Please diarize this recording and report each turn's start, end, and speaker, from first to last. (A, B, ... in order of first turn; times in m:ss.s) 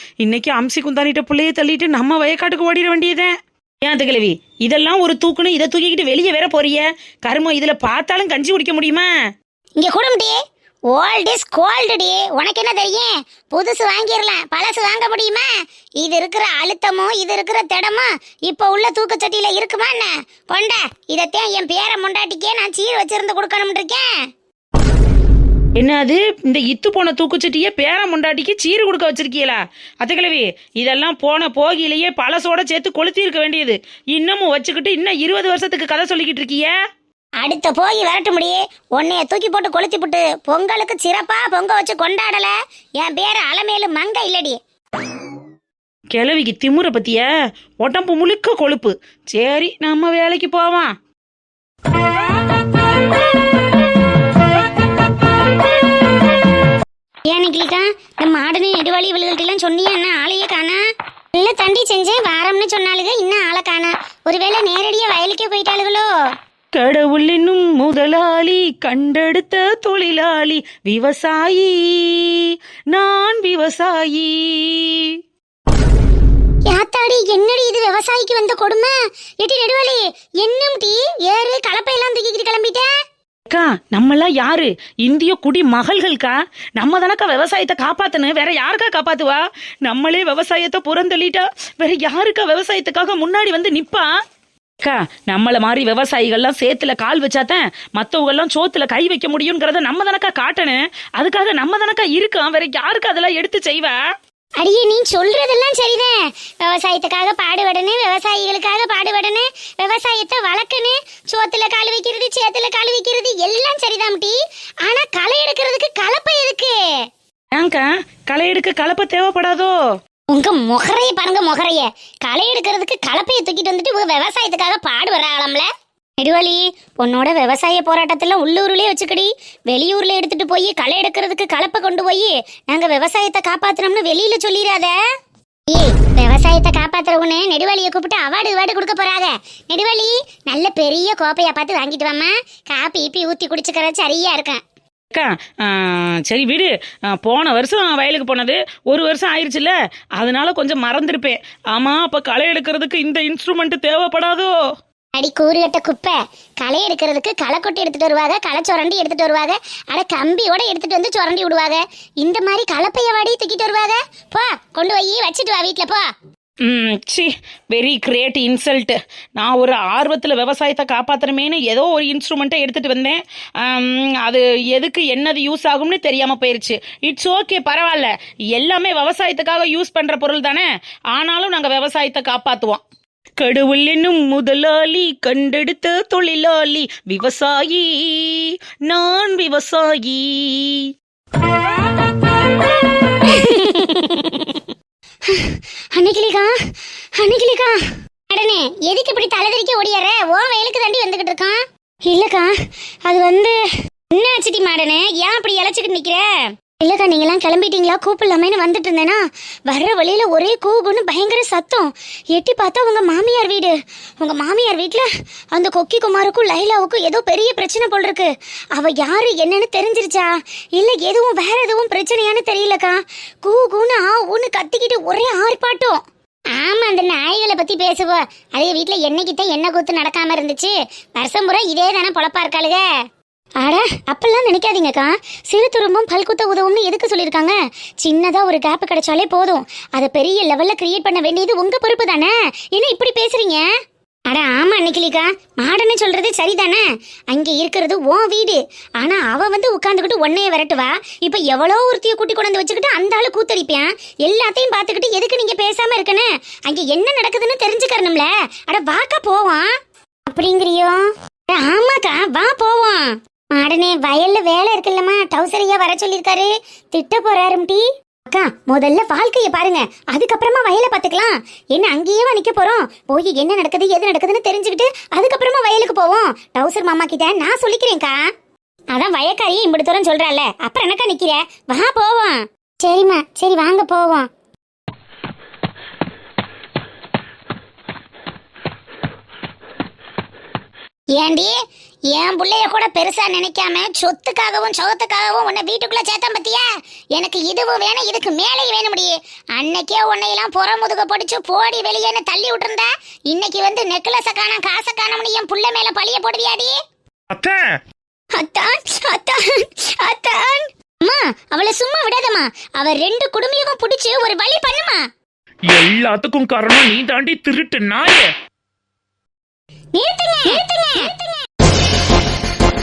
0:00.2-0:03.3 A
0:03.8-0:09.1 A
0:09.8-0:10.4 B
0:10.9-0:15.5 B
0:16.0-0:24.1 B
0:25.8-0:36.7 A
0:37.4-0:44.6 B
0:46.1-0:47.2 A
0:47.8-0:50.9 A
0:57.2-1:00.8 B
1:01.3-1:06.1 B
1:06.7-1:15.2 A
1:16.7-1:22.9 B
1:23.5-1:34.1 A
1:34.8-1:44.0 A
1:44.6-1:56.8 B
1:57.5-1:59.7 A
2:00.3-2:05.7 B
2:06.2-2:14.9 B
2:15.7-2:24.6 B
2:25.1-2:34.5 A
2:35.1-2:46.0 B
2:46.6-3:02.8 A
3:03.4-3:10.9 A
3:13.2-3:14.7 B
3:15.3-3:16.5 B
3:17.1-3:17.8 B
3:18.3-3:22.5 B
3:23.0-3:23.6 B
3:24.1-3:46.0 B
3:46.5-3:52.8 B
3:53.6-4:03.6 B
4:04.3-4:19.7 B
4:20.3-4:38.2 B
4:38.9-4:44.3 B
4:51.1-4:51.6 B
4:52.1-5:06.8 B
5:07.3-5:07.6 C
5:08.3-5:15.0 B
5:15.7-5:18.3 C
5:19.9-5:21.2 B